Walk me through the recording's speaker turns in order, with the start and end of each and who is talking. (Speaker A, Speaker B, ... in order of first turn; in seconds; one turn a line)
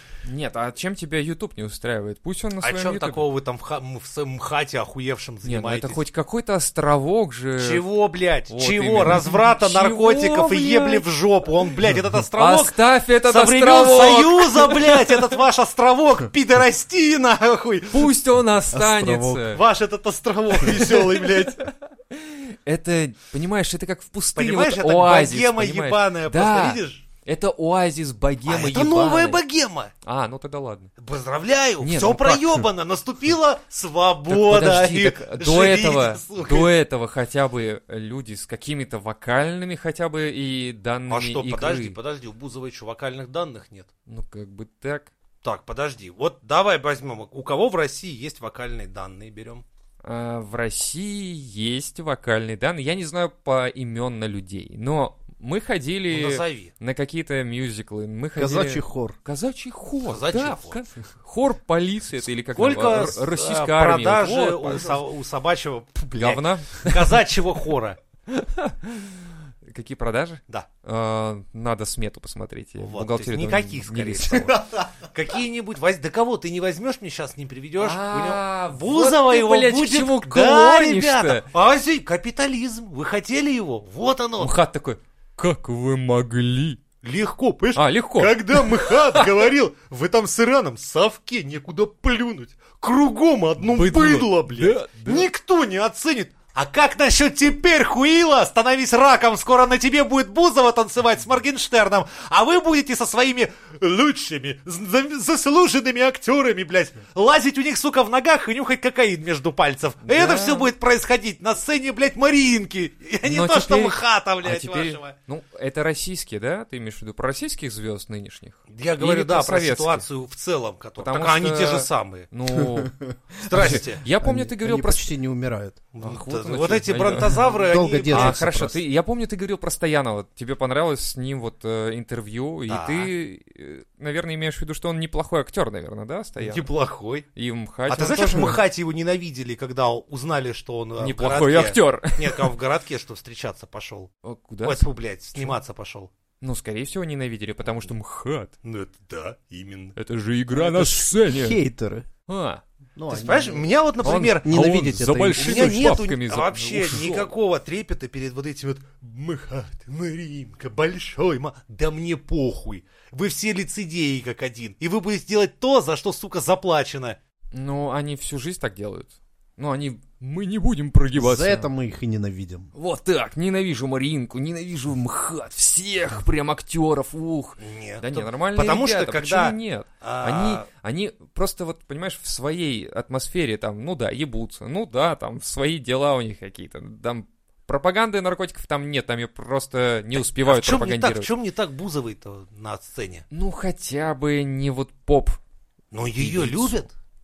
Speaker A: 0.2-3.2
Speaker B: 2.6-6.0
Speaker A: 5.4-7.8
Speaker B: 7.6-18.1
Speaker A: 8.5-11.0
Speaker A: 12.3-15.2
Speaker A: 17.9-19.6
Speaker C: 18.7-19.5
Speaker B: 19.5-21.6
Speaker A: 21.0-29.4
Speaker B: 24.4-27.0
Speaker B: 28.4-29.9
Speaker C: 28.8-29.2
Speaker A: 30.0-30.9
Speaker B: 31.0-36.7
Speaker A: 31.8-32.6
Speaker A: 34.3-42.0
Speaker B: 41.1-43.9
Speaker A: 44.1-45.1
Speaker B: 45.4-49.6
Speaker A: 50.0-65.0
Speaker B: 56.1-56.7
Speaker C: 58.4-59.2
Speaker B: 60.1-60.8
Speaker B: 62.5-68.0
Speaker A: 66.2-67.2
Speaker A: 68.3-74.6
Speaker B: 72.8-84.5
Speaker A: 77.8-81.5
Speaker A: 84.4-86.8
Speaker B: 87.0-115.1
Speaker A: 87.8-89.3
Speaker A: 93.6-95.2
Speaker A: 110.0-110.7
Speaker A: 113.2-120.0
Speaker B: 118.7-122.3
Speaker A: 121.0-123.0
Speaker C: 122.5-125.8
Speaker B: 123.4-124.0
Speaker A: 123.5-125.1
Speaker B: 125.9-128.4
Speaker A: 126.0-127.5
Speaker C: 127.4-128.8
Speaker A: 128.1-136.7
Speaker B: 132.7-133.1
Speaker B: 136.4-137.2
Speaker A: 137.3-138.6
Speaker B: 137.9-144.1
Speaker A: 141.0-142.5
Speaker A: 144.2-145.6
Speaker B: 144.6-146.1
Speaker A: 146.4-148.5
Speaker B: 148.6-149.9
Speaker A: 149.9-151.6
Speaker C: 150.5-152.1
Speaker A: 152.3-152.6
Speaker C: 152.9-156.0
Speaker B: 153.1-154.6
Speaker A: 154.0-157.3
Speaker B: 155.3-167.2
Speaker A: 167.5-171.7
Speaker C: 171.2-172.7
Speaker A: 172.7-191.3
Speaker B: 177.6-180.7
Speaker B: 190.2-193.2
Speaker A: 193.3-195.4
Speaker B: 195.9-196.9
Speaker A: 196.2-196.9